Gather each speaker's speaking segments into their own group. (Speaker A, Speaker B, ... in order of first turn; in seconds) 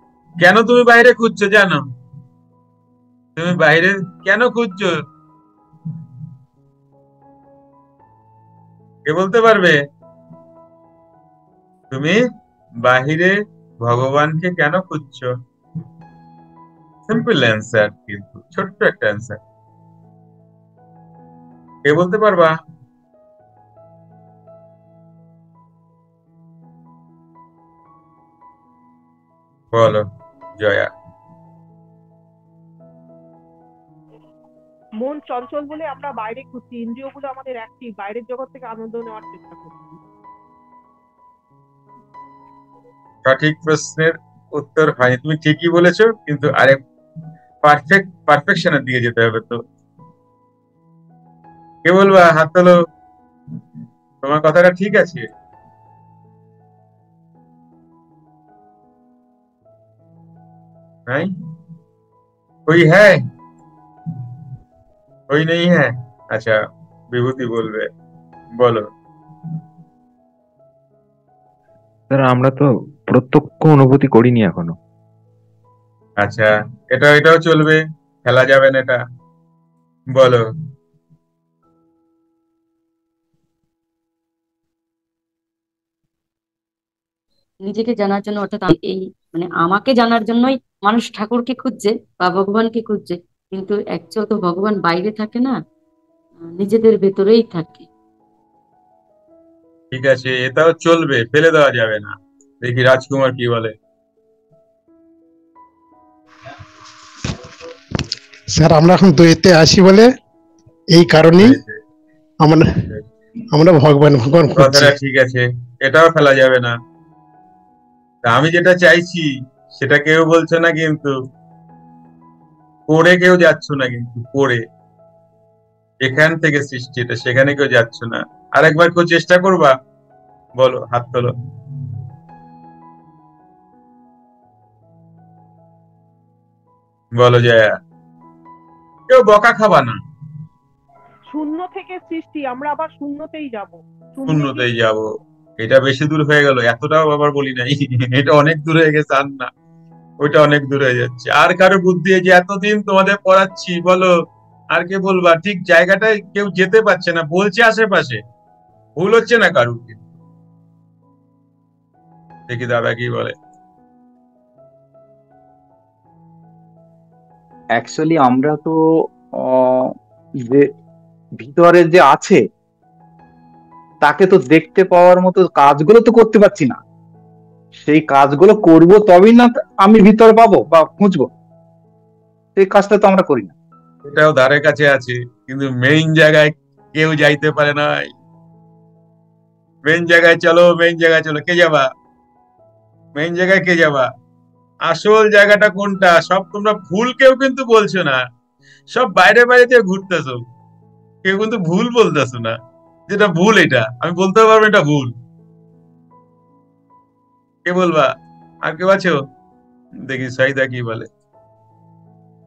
Speaker A: 0.4-1.8, 3.4-4.9, 9.1-9.8, 11.9-12.2, 12.8-15.3, 17.1-19.4, 21.8-22.5, 29.7-30.1, 30.6-30.9, 43.2-46.8, 47.6-49.6, 51.8-52.7, 54.2-55.2, 62.7-63.2, 65.3-66.5, 67.1-67.9, 68.6-68.9, 76.2-79.0, 80.1-80.4, 99.9-103.7, 111.4-111.8, 114.5-116.7, 118.2-121.1, 122.9-124.6, 126.0-129.7, 130.6-131.3, 137.2-137.7, 139.1-140.0, 144.2-145.1, 145.6-149.5, 150.2-154.1, 154.7-158.2, 159.0-160.1, 162.5-163.3, 184.0-188.1, 189.9-191.9, 193.2-194.1, 194.9-198.2, 198.9-200.4, 201.2-202.6, 203.1-205.1, 207.7-208.1, 208.7-209.2, 210.1-211.1
Speaker B: 35.0-40.0, 141.3-144.7
Speaker C: 72.1-74.7
Speaker D: 87.6-95.5, 96.4-97.9
Speaker E: 108.5-110.1, 110.9-111.6, 112.4-112.8, 113.5-114.9
Speaker F: 167.8-168.8, 169.4-169.9, 171.4-172.4, 174.0-176.8, 177.8-181.3, 182.6-183.5